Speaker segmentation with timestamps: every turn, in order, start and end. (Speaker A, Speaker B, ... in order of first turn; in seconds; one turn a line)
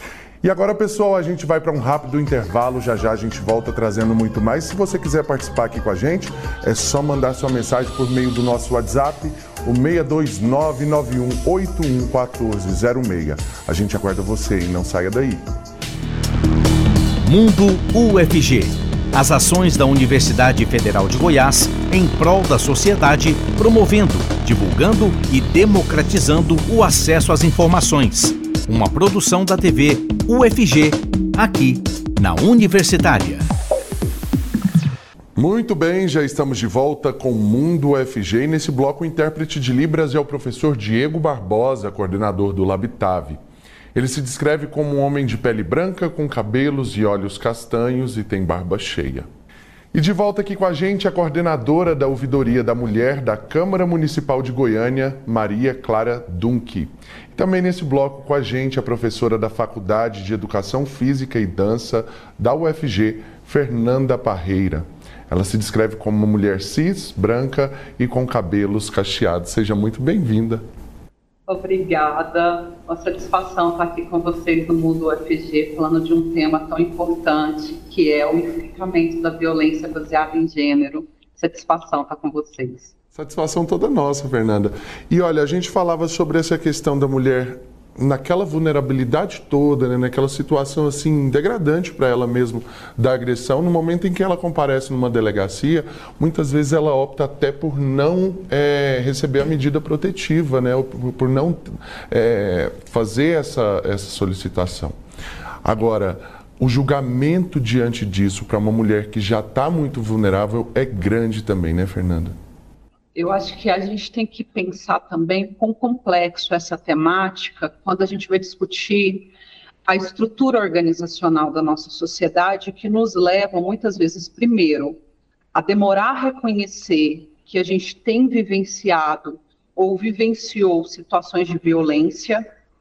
Speaker A: 0.4-15.4
Speaker B: 17.2-33.5
Speaker A: 35.4-43.4
Speaker A: 43.9-49.3
Speaker A: 49.9-70.6
Speaker C: 71.5-82.9
Speaker A: 83.1-105.0
Speaker A: 105.6-112.3
Speaker C: 113.1-119.3
Speaker C: 119.9-125.0
Speaker C: 125.5-132.4